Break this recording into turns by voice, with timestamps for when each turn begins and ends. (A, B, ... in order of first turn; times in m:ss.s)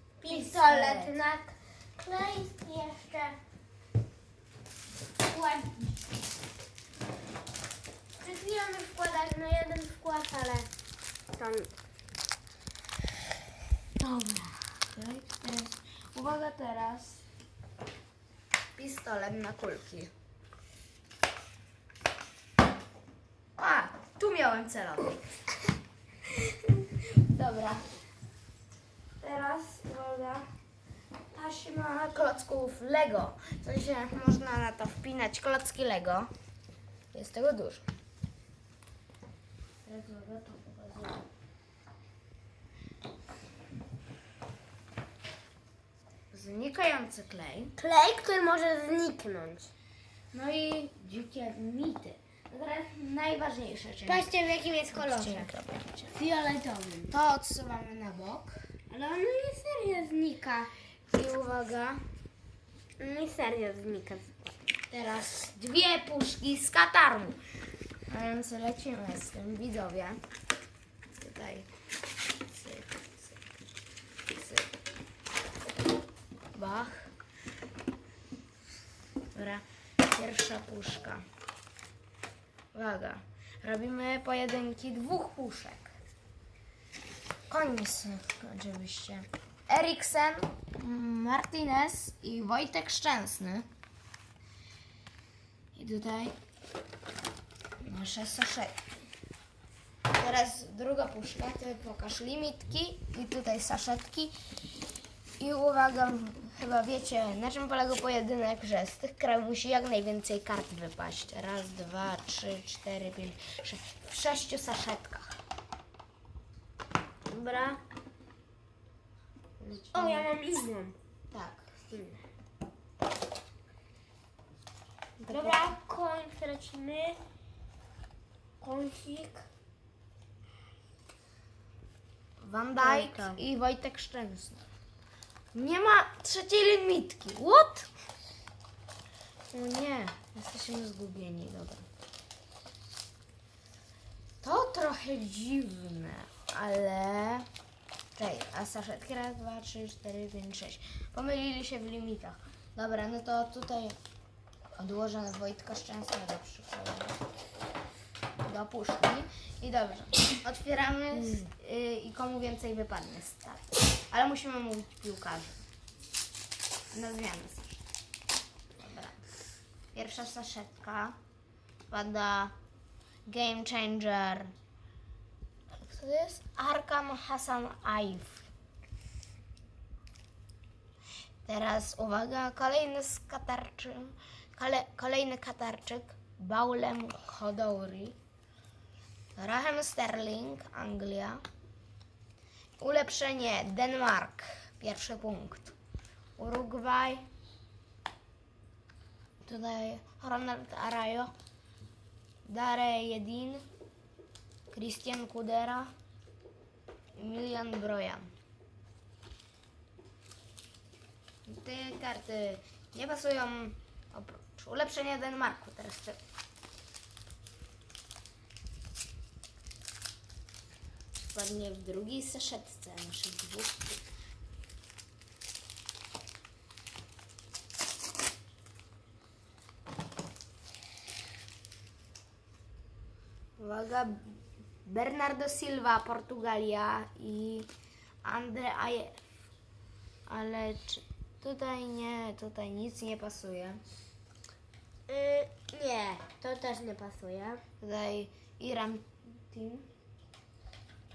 0:00.2-0:03.4 A
0:00.2-0:01.2 B
0:05.3-0:06.0 A
0:08.2-0:10.7 A
0:11.3-0:11.7 A
0:14.0-0:17.2 B
0:18.8-0:20.1 B
0:23.6-0:25.2 B
0:27.1-0:27.9 B
0:29.2-0:30.4 B
0:31.3-0:36.3 B
0:37.1-0:37.9 B
0:39.8-0:41.2 B
0:46.3-0:47.8 B
0:47.8-0:49.7 A
0:50.3-0:54.3 B
0:54.1-0:55.5 A
0:54.9-0:56.1 B
0:56.1-0:57.1 A
0:57.1-0:58.8 B
0:58.9-1:00.6 A
1:00.6-1:02.0 B
1:03.0-1:04.4 A
1:04.9-1:07.4 B
1:08.1-1:10.2 B
1:11.2-1:11.7 B
1:12.5-1:13.4 B
1:14.3-1:14.7 B
1:16.5-1:17.1 B
1:19.3-1:21.2 B
1:22.7-1:26.0 B
1:27.5-1:33.7 B
1:35.8-1:36.3 B
1:37.8-1:38.8 B
1:40.1-1:44.3 B
1:45.4-1:55.3 B
1:57.3-1:57.8 A
1:59.6-2:00.3 B
1:59.9-2:01.0 A
2:01.3-2:01.7 B
2:01.9-2:02.2 A
2:05.2-2:05.8 B
2:05.3-2:07.2 A
2:08.6-2:09.5 A
2:12.4-2:14.6 B
2:12.8-2:13.4 A
2:15.5-2:17.9 B
2:19.5-2:21.9 B
2:24.4-2:27.5 B
2:28.2-2:34.0 B
2:34.8-2:37.2 B
2:38.4-2:45.7 B
2:46.9-2:47.8 B
2:48.8-2:49.3 B
2:49.9-2:51.2 B
2:51.9-2:52.5 B
2:53.3-2:54.5 B
2:55.7-2:58.5 B
3:01.5-3:08.2 B
3:09.4-3:11.4 B
3:12.8-3:15.8 B
3:16.4-3:17.2 B
3:19.4-3:21.3 B
3:22.4-3:23.6 B
3:24.7-3:25.9 B
3:27.2-3:28.3 B
3:31.5-3:36.2 B
3:41.2-3:44.0 B
3:53.6-3:57.7 B
3:58.2-3:59.2 B
4:00.3-4:03.8 B
4:05.1-4:07.6 A
4:07.8-4:09.9 B